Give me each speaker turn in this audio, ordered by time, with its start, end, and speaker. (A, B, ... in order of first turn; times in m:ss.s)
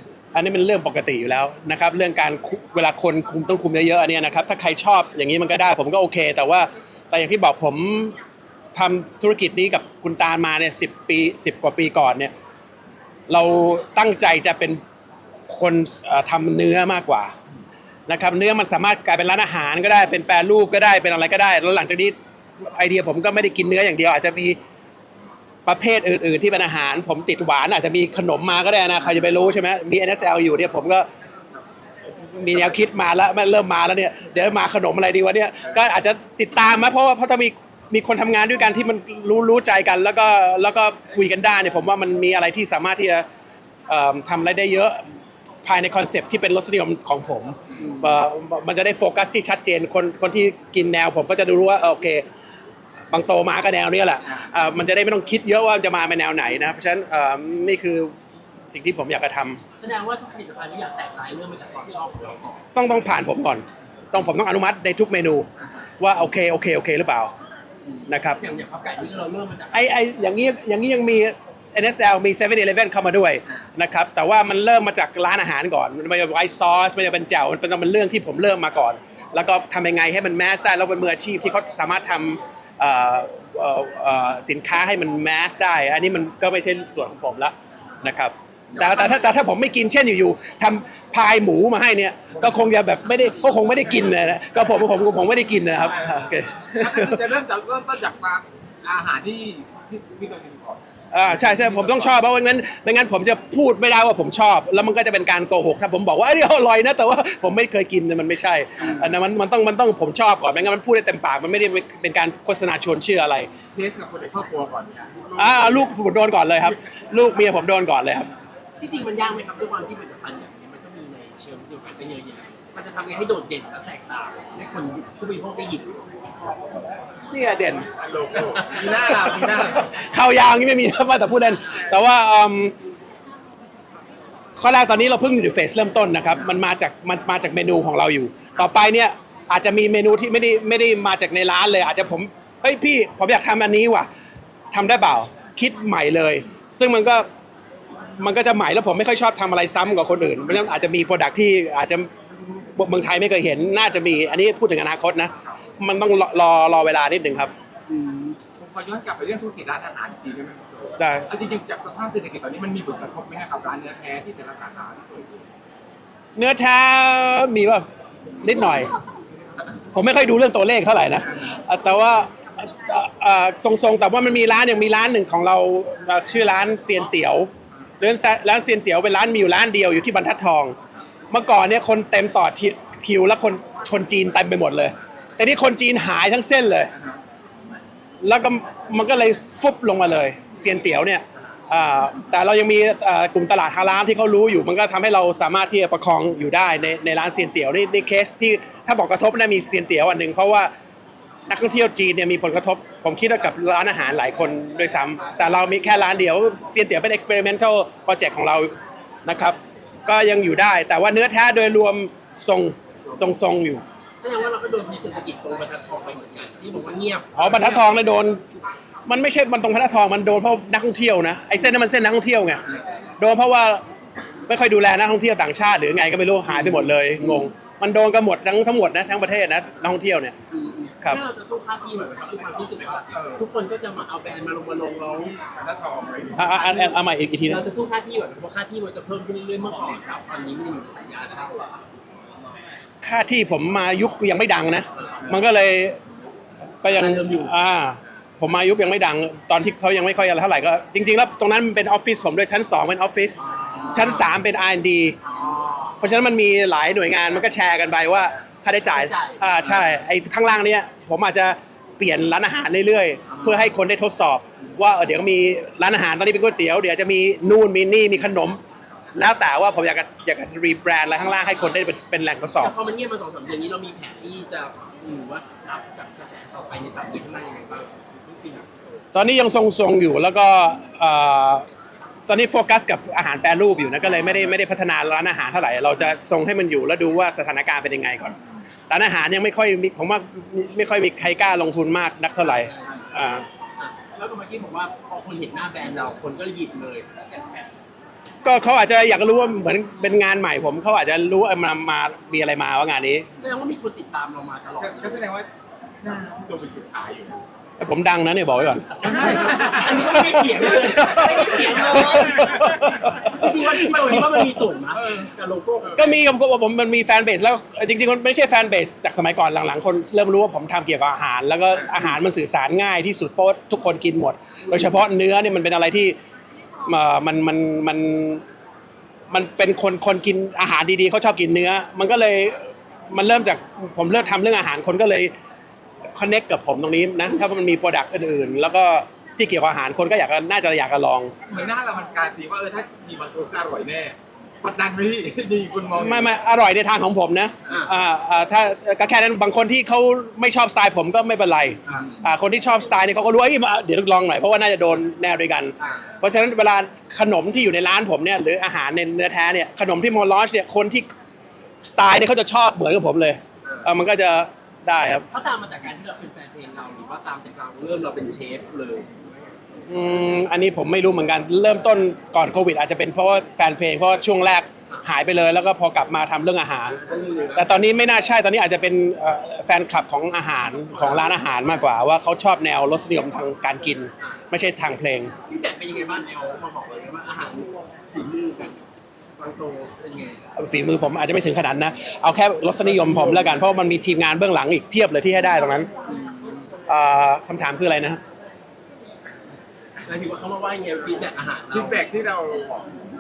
0:00.3-0:08.2 A
0:08.7-0:12.3 A
0:13.3-0:14.8 A
0:15.5-0:17.3 A
0:18.1-0:24.6 A
0:25.6-0:31.0 A
0:32.1-0:43.2 A
0:43.9-0:45.0 A
0:45.6-0:52.2 A
0:53.1-0:58.1 A
0:58.7-0:59.6 A
0:59.8-1:02.6 B
1:02.7-1:07.3 A
1:07.9-1:09.9 B
1:08.1-1:08.4 A
1:09.7-1:37.3 A
1:28.7-1:29.3 C
1:36.8-1:42.2 C
1:41.1-1:53.5 A
1:48.8-1:49.1 C
1:53.7-1:55.9 C
1:55.4-1:58.3 A
1:58.8-2:06.0 B
2:07.3-2:07.9 A
2:07.9-2:09.9 C
2:08.5-2:08.9 B
2:09.3-2:12.7 A
2:14.6-2:24.1 A
2:24.7-2:27.3 A
2:28.1-2:37.5 A
2:37.9-2:38.4 B
2:38.6-2:45.4 C
2:41.0-2:41.3 A
2:46.4-2:47.8 A
2:48.4-2:48.9 A
2:49.9-3:00.8 A
3:01.3-3:06.9 A
3:06.9-3:07.2 C
3:08.2-3:20.7 A
3:21.5-3:28.7 A
3:29.2-3:33.8 A
3:34.2-3:37.3 B
3:37.3-3:38.4 A
3:37.4-3:37.9 C
3:39.0-3:42.6 A
3:43.2-3:43.8 A
3:44.5-3:50.4 A
3:46.5-3:47.4 B
3:50.5-3:55.4 B
3:53.1-3:53.4 C
3:55.4-3:56.5 C
3:56.4-3:57.6 A
3:56.4-4:01.6 B
4:03.0-4:06.0 A
4:06.8-4:13.4 A
4:06.9-4:07.5 B
4:13.4-4:14.3 B
4:13.9-4:15.2 A
4:15.3-4:16.0 B
4:16.0-4:28.6 A
4:18.9-4:19.4 B
4:29.1-4:32.7 A
4:32.6-4:39.0 B
4:39.1-4:41.6 A
4:42.3-4:48.4 A
4:48.9-4:53.4 A
4:52.4-4:53.1 B
4:53.8-4:57.1 B
4:58.4-5:03.3 A
5:03.4-5:05.2 B
5:04.8-5:05.5 C
5:06.0-5:07.4 C
5:07.8-5:14.6 A
5:09.0-5:16.2 B
5:09.0-5:10.6 C
5:12.0-5:13.1 C
5:15.0-5:15.3 C
5:15.9-5:26.2 A
5:26.8-5:28.4 A
5:29.3-5:35.3 A
5:36.1-5:41.3 A
5:41.5-5:46.3 C
5:45.9-6:01.1 A
5:51.8-5:52.2 B
5:55.8-5:56.1 B
6:01.8-6:05.2 A
6:03.6-6:03.9 B
6:05.3-6:09.6 B
6:09.9-6:17.0 A
6:16.9-6:17.7 B
6:17.5-6:25.3 A
6:20.9-6:21.3 B
6:25.5-6:28.8 B
6:29.4-6:30.4 B
6:30.6-6:35.9 A
6:33.1-6:33.4 B
6:36.9-6:38.2 A
6:40.0-6:42.0 B
6:41.7-6:43.0 C